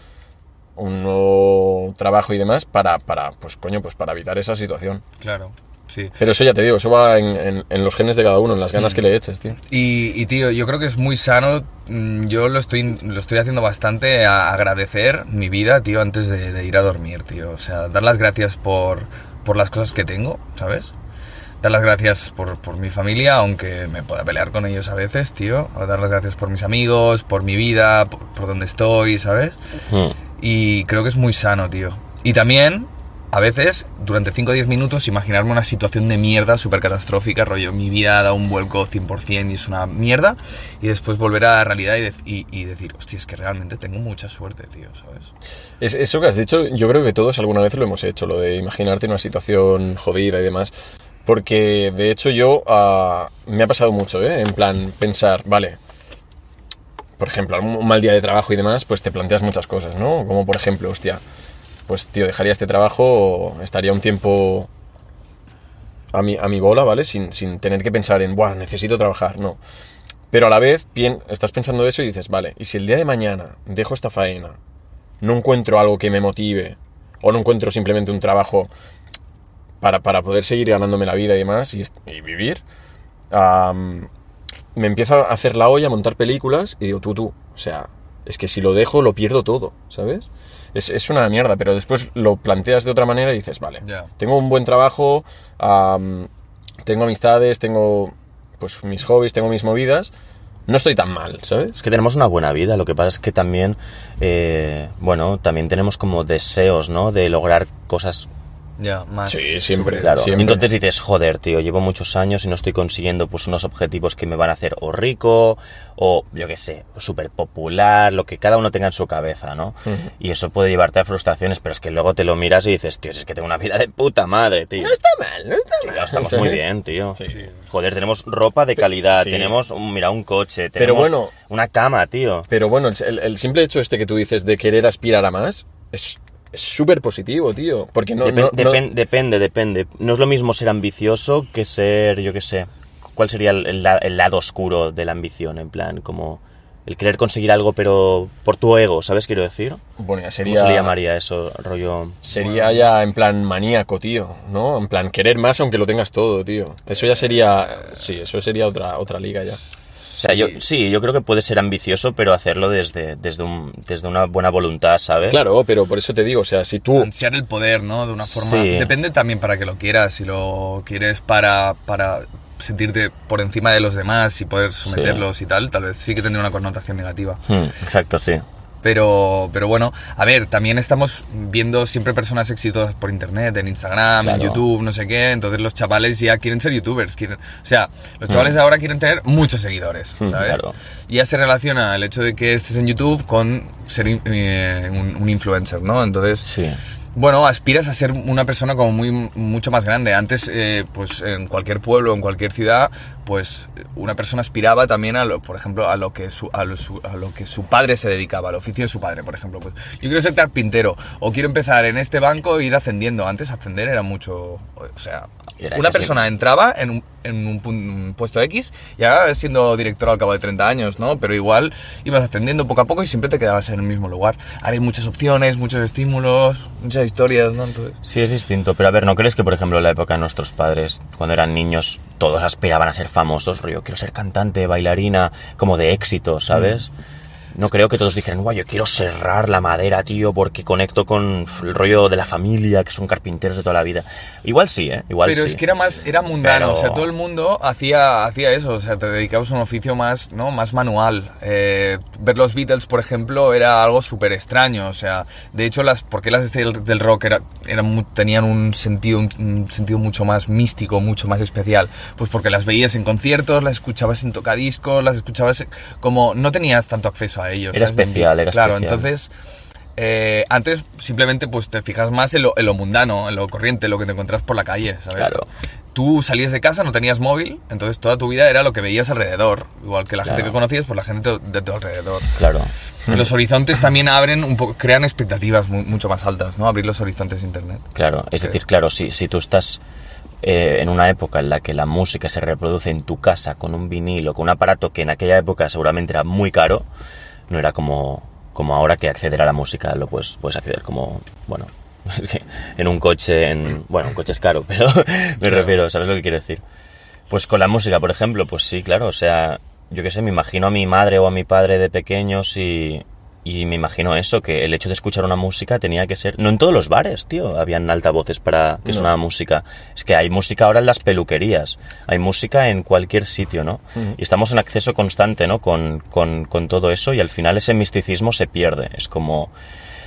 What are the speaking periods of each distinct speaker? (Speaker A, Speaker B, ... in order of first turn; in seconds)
Speaker A: 0.8-5.0, 6.2-9.6, 45.8-50.7, 51.2-55.8, 57.2-61.2, 61.9-64.7, 66.1-69.6, 70.3-74.6, 75.2-78.7, 79.8-82.6, 83.3-84.1, 84.8-96.3, 96.8-100.1, 100.7-101.8, 109.3-110.6, 124.8-127.5, 129.1-129.5, 130.8-131.3, 132.5-138.8, 150.0-150.9, 152.2-159.6, 165.3-167.1, 318.9-319.1
Speaker B: 5.2-6.2, 8.8-9.0, 9.7-20.9, 21.6-29.6, 30.4-45.3, 93.8-94.1, 108.8-110.3, 127.3-127.5, 152.3-152.8, 160.2-160.6, 166.9-177.4, 178.8-196.5, 197.2-228.0, 236.5-236.8, 245.2-269.3, 270.0-282.4, 283.1-288.6, 305.4-305.7
Speaker C: 29.9-30.2, 101.8-108.3, 110.0-125.0, 125.8-132.5, 138.2-149.8, 150.4-152.2, 160.2-165.4, 168.3-168.9, 174.9-175.2, 177.5-178.4, 184.2-184.6, 188.3-188.5, 190.3-190.8, 196.4-196.8, 215.6-216.2, 228.0-236.9, 237.5-245.6, 246.4-247.1, 267.7-269.1, 275.2-275.5, 280.2-280.6, 282.4-282.7, 287.9-289.8, 290.4-296.9, 297.5-306.6, 307.3-329.5